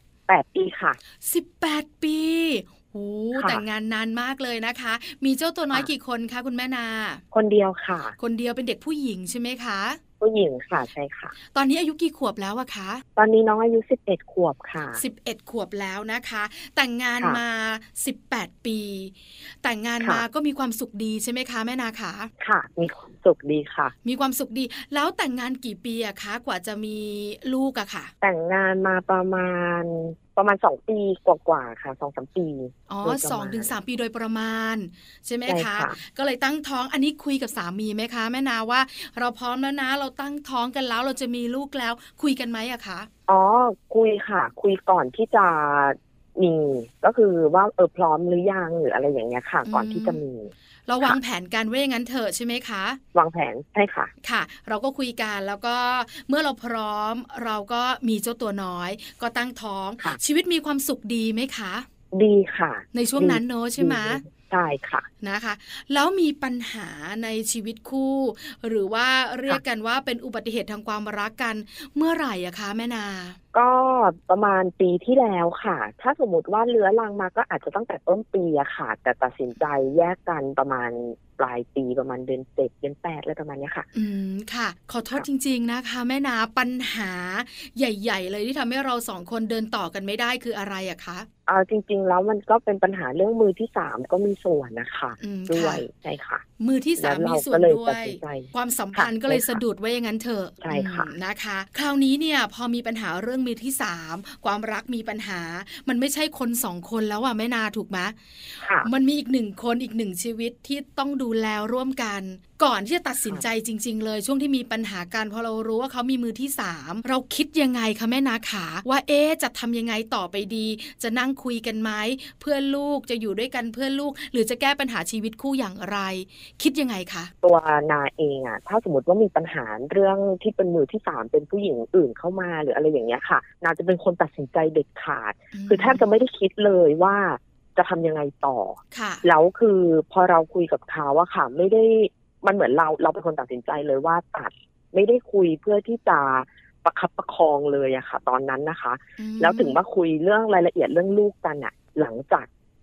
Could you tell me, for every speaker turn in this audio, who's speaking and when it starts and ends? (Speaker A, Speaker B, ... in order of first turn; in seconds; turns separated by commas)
Speaker A: 0.3-1.0, Speaker B: 1.2-7.2, Speaker A: 3.3-3.6, Speaker A: 7.3-8.2, Speaker B: 8.2-10.0, Speaker A: 10.2-11.3, Speaker B: 11.5-13.0, Speaker A: 13.2-15.0, Speaker B: 14.9-22.3, Speaker A: 22.4-23.9, Speaker B: 24.0-28.1, Speaker A: 28.2-33.7, Speaker B: 32.9-43.1, Speaker A: 35.5-36.0, Speaker A: 43.3-51.2, Speaker B: 49.6-50.2, Speaker B: 50.9-53.0, Speaker A: 53.1-54.1, Speaker B: 54.2-61.9, Speaker A: 62.1-65.1, Speaker B: 62.9-64.2, Speaker B: 65.2-73.4, Speaker A: 73.5-83.9, Speaker B: 83.9-91.3, Speaker A: 91.5-96.4, Speaker B: 95.2-95.8, Speaker B: 96.6-127.3, Speaker A: 97.0-99.6, Speaker A: 100.6-101.1, Speaker A: 108.6-108.9, Speaker A: 127.4-152.5, Speaker B: 135.5-136.1, Speaker B: 138.9-139.2, Speaker B: 149.2-149.8